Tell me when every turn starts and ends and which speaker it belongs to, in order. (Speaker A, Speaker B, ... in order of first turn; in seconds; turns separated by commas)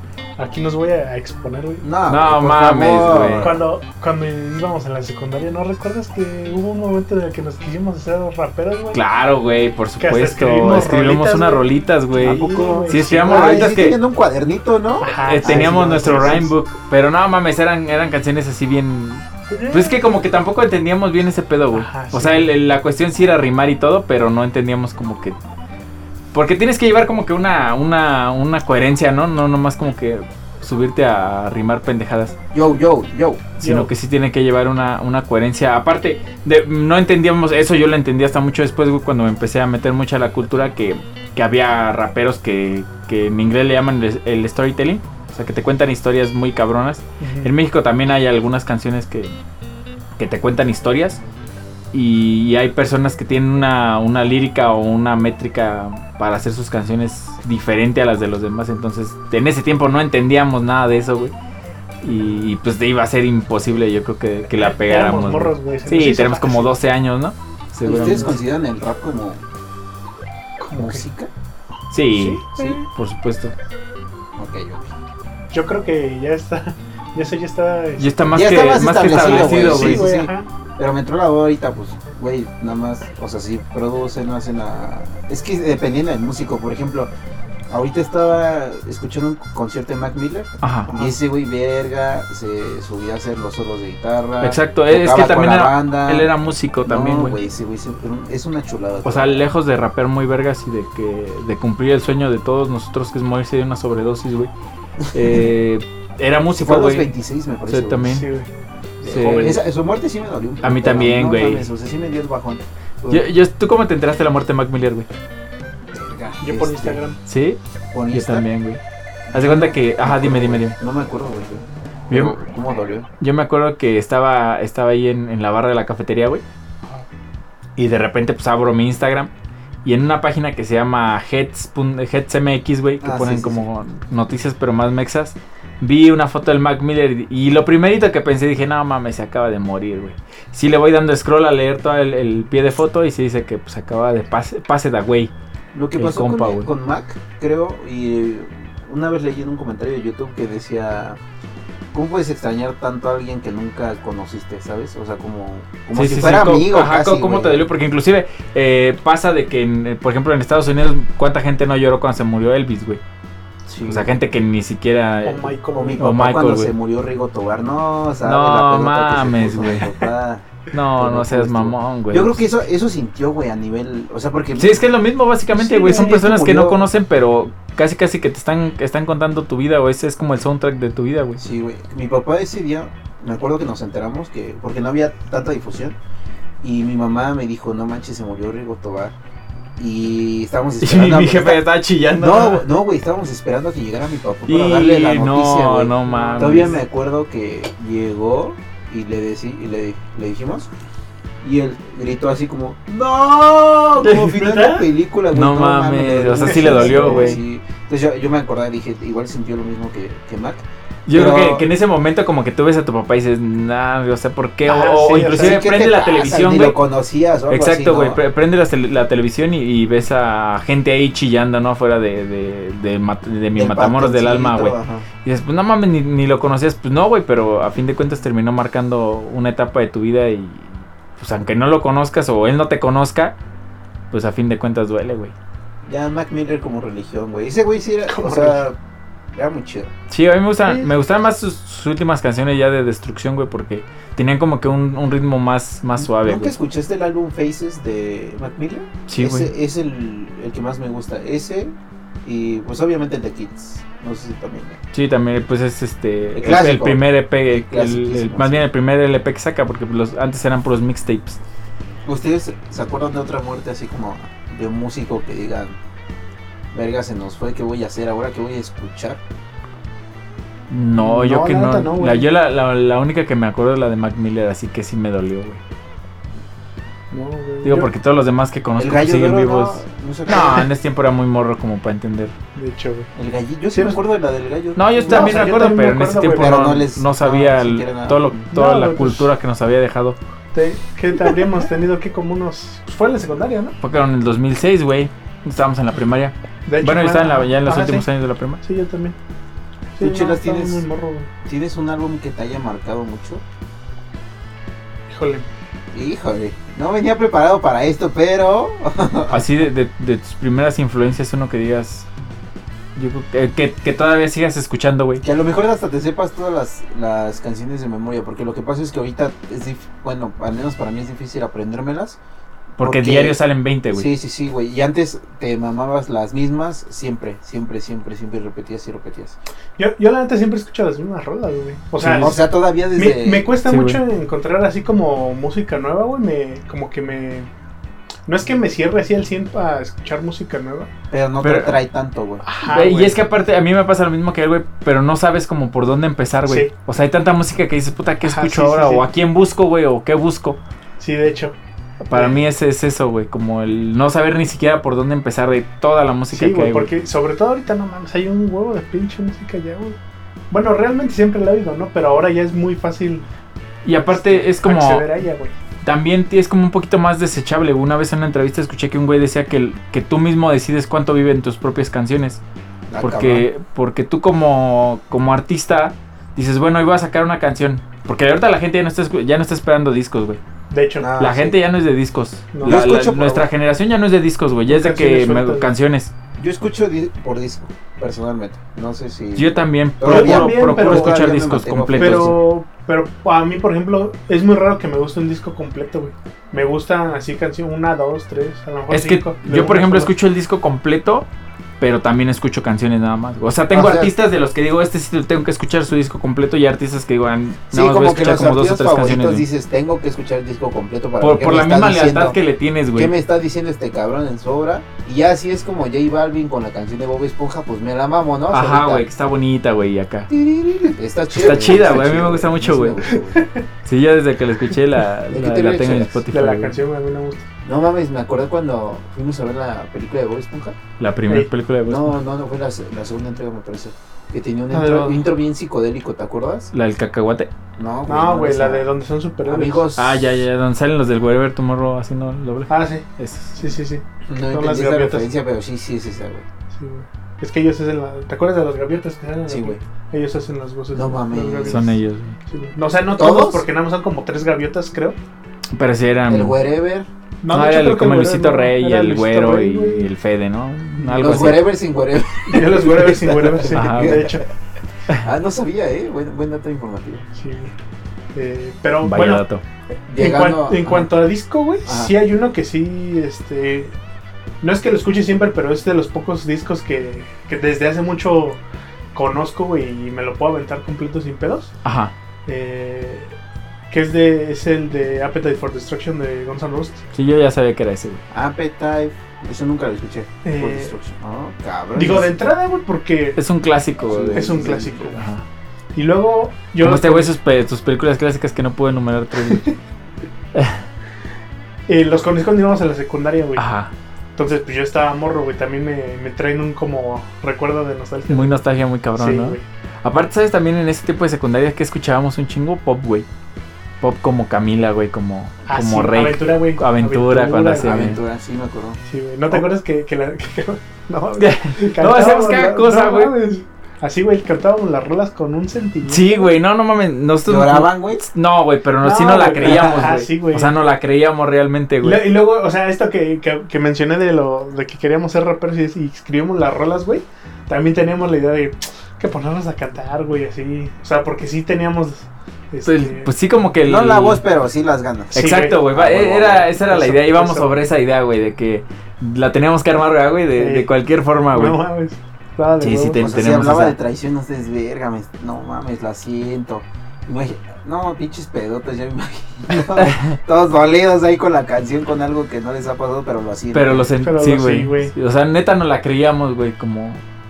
Speaker A: 0.4-1.9, Speaker B: 1.8-3.6, Speaker C: 2.1-3.5, Speaker A: 3.4-9.0, Speaker C: 8.9-14.0, Speaker A: 10.0-13.8, Speaker B: 12.2-16.5, Speaker A: 15.0-16.5, Speaker C: 15.2-25.4, Speaker A: 19.5-20.0, Speaker A: 21.7-22.6, Speaker C: 26.3-32.4, Speaker B: 32.5-33.5, Speaker C: 33.6-49.4, Speaker A: 33.6-33.9, Speaker A: 47.2-47.5, Speaker C: 50.2-51.2, Speaker C: 51.9-61.3, Speaker C: 62.0-68.4, Speaker A: 64.5-66.8, Speaker B: 67.8-69.4, Speaker A: 70.6-71.0, Speaker B: 70.7-71.3, Speaker C: 71.9-73.5, Speaker A: 72.1-72.9, Speaker B: 74.4-74.9, Speaker A: 75.5-78.2, Speaker C: 78.0-80.1, Speaker B: 78.3-87.1, Speaker A: 79.1-80.5, Speaker B: 87.7-96.3, Speaker C: 90.6-90.9, Speaker C: 94.4-97.4, Speaker B: 96.8-99.5, Speaker C: 99.0-104.5, Speaker C: 105.1-107.1, Speaker B: 105.1-105.4, Speaker B: 106.6-108.2, Speaker C: 107.7-108.3, Speaker A: 108.1-108.5, Speaker A: 109.0-109.6, Speaker B: 109.0-113.3, Speaker C: 109.0-109.6, Speaker C: 110.6-111.7, Speaker C: 113.1-115.1, Speaker B: 115.9-117.0, Speaker A: 116.4-117.2, Speaker C: 117.2-117.6, Speaker B: 117.9-118.5, Speaker C: 118.1-118.8, Speaker B: 119.3-123.1, Speaker C: 119.3-120.8, Speaker C: 122.1-122.4, Speaker C: 123.2-126.4, Speaker C: 127.8-129.3, Speaker C: 129.8-145.3, Speaker B: 133.0-133.6, Speaker B: 145.7-151.2, Speaker C: 146.0-146.7, Speaker B: 151.9-157.7, Speaker C: 155.9-163.0, Speaker B: 163.7-164.2, Speaker C: 163.9-166.7, Speaker A: 165.2-166.1, Speaker B: 165.7-170.5, Speaker C: 168.2-169.9, Speaker C: 170.7-172.4, Speaker B: 171.0-174.9, Speaker C: 174.6-181.4, Speaker B: 175.6-176.9, Speaker A: 175.9-176.2, Speaker B: 181.4-186.0, Speaker B: 186.6-189.2, Speaker B: 189.8-200.7, Speaker C: 190.8-192.7, Speaker C: 194.5-196.8, Speaker A: 196.1-196.8, Speaker B: 201.4-211.7, Speaker C: 204.0-204.4, Speaker A: 204.4-204.9, Speaker C: 205.3-207.4, Speaker A: 206.4-207.4, Speaker C: 211.1-216.8, Speaker A: 214.7-215.7, Speaker B: 215.3-218.2, Speaker C: 217.5-233.4, Speaker B: 223.6-225.1, Speaker C: 234.1-235.3, Speaker B: 235.9-238.8, Speaker A: 238.1-238.7, Speaker B: 239.3-239.9, Speaker C: 240.1-246.6, Speaker A: 240.7-240.9, Speaker B: 246.0-254.8, Speaker C: 249.1-249.5, Speaker C: 254.9-261.4, Speaker B: 256.4-258.7, Speaker B: 262.1-265.8, Speaker B: 266.7-269.2, Speaker C: 270.7-275.6, Speaker A: 271.0-272.3, Speaker A: 277.1-277.9, Speaker C: 277.6-282.4, Speaker B: 278.8-280.7, Speaker A: 282.6-283.1, Speaker B: 283.1-285.6, Speaker A: 283.7-284.0, Speaker C: 284.8-290.2, Speaker A: 285.1-286.7, Speaker B: 286.3-288.4, Speaker A: 288.5-289.3, Speaker A: 290.5-293.8, Speaker C: 293.8-298.6, Speaker A: 296.7-298.1, Speaker A: 298.6-299.2, Speaker A: 300.0-301.3, Speaker B: 300.0-300.9, Speaker B: 301.4-303.4, Speaker A: 305.1-305.5, Speaker B: 305.9-309.5, Speaker C: 309.3-312.1, Speaker C: 313.0-315.2, Speaker B: 315.2-322.2, Speaker C: 322.8-324.1, Speaker B: 322.8-323.4, Speaker B: 323.9-329.4, Speaker A: 329.8-332.4, Speaker C: 332.0-332.4, Speaker B: 332.2-333.5, Speaker A: 332.9-337.5, Speaker C: 333.6-334.0, Speaker A: 338.3-340.9, Speaker B: 341.1-342.4, Speaker C: 341.4-341.8, Speaker A: 342.4-343.2, Speaker C: 342.6-350.6, Speaker A: 346.5-346.7, Speaker A: 348.2-349.1, Speaker A: 351.0-351.6, Speaker C: 352.1-356.9, Speaker A: 352.1-352.4, Speaker A: 356.3-360.0, Speaker A: 360.5-363.2, Speaker C: 363.9-365.1, Speaker A: 364.1-365.6, Speaker C: 365.8-372.4, Speaker B: 372.9-373.5, Speaker C: 373.0-380.4, Speaker A: 380.7-381.1, Speaker B: 381.0-381.6, Speaker C: 381.2-386.1, Speaker A: 382.5-382.8, Speaker B: 382.6-383.5, Speaker A: 384.7-385.7, Speaker B: 386.4-392.4, Speaker C: 389.4-392.4, Speaker A: 390.0-391.2, Speaker A: 391.9-400.1, Speaker C: 398.9-401.3, Speaker C: 401.8-409.4, Speaker B: 403.7-404.1, Speaker B: 407.7-412.4, Speaker C: 411.2-413.1, Speaker B: 412.9-419.1, Speaker C: 418.5-420.3, Speaker B: 420.3-423.5, Speaker C: 421.4-423.0, Speaker A: 423.1-423.6, Speaker C: 423.9-426.8, Speaker B: 425.3-426.2, Speaker A: 426.3-427.4, Speaker B: 427.6-430.8, Speaker C: 431.0-432.2, Speaker B: 431.9-436.7, Speaker A: 434.7-435.3, Speaker C: 436.7-437.5, Speaker B: 437.8-438.9, Speaker A: 438.1-439.9, Speaker B: 439.4-440.3, Speaker C: 439.9-443.6, Speaker A: 442.7-445.3, Speaker B: 444.3-446.4, Speaker A: 446.7-452.0, Speaker B: 449.5-449.8, Speaker B: 450.9-451.9, Speaker C: 451.7-452.4, Speaker A: 452.5-455.2, Speaker B: 453.1-453.7, Speaker C: 455.7-456.6, Speaker B: 456.3-457.1, Speaker A: 457.4-460.1, Speaker C: 457.5-461.7, Speaker A: 461.0-461.4, Speaker B: 461.1-464.5, Speaker A: 462.5-464.4, Speaker C: 463.7-464.3, Speaker B: 465.2-467.3, Speaker A: 467.4-467.7, Speaker A: 468.4-469.4, Speaker C: 469.0-469.6, Speaker B: 470.1-471.1, Speaker A: 470.2-473.9, Speaker B: 471.9-472.1, Speaker A: 474.6-478.6, Speaker A: 479.1-481.7, Speaker C: 481.8-482.1, Speaker A: 482.5-483.3, Speaker A: 483.9-487.0, Speaker C: 487.1-488.2, Speaker B: 488.3-492.3, Speaker A: 490.4-491.0, Speaker A: 492.0-493.4, Speaker C: 493.4-495.4, Speaker B: 494.1-495.1, Speaker A: 494.3-495.3, Speaker A: 495.9-497.4, Speaker C: 496.8-499.7, Speaker A: 499.4-499.7, Speaker C: 500.6-500.8, Speaker A: 501.9-503.6, Speaker C: 503.6-503.9, Speaker A: 504.4-508.6, Speaker C: 508.3-513.3, Speaker A: 509.2-509.6, Speaker C: 514.0-518.2, Speaker A: 515.7-518.1, Speaker B: 517.8-519.0, Speaker A: 519.1-526.5, Speaker C: 521.4-523.3, Speaker C: 526.1-532.3, Speaker B: 527.5-528.2, Speaker A: 529.0-530.8, Speaker B: 529.6-530.0, Speaker A: 532.0-543.3, Speaker C: 542.9-544.4, Speaker B: 543.9-546.8, Speaker A: 545.3-545.9, Speaker C: 545.3-551.8, Speaker A: 546.9-547.8, Speaker A: 550.6-550.9, Speaker A: 551.5-553.3, Speaker C: 552.8-554.0, Speaker B: 553.2-564.1, Speaker C: 560.0-560.4, Speaker C: 563.7-567.2, Speaker A: 564.2-565.1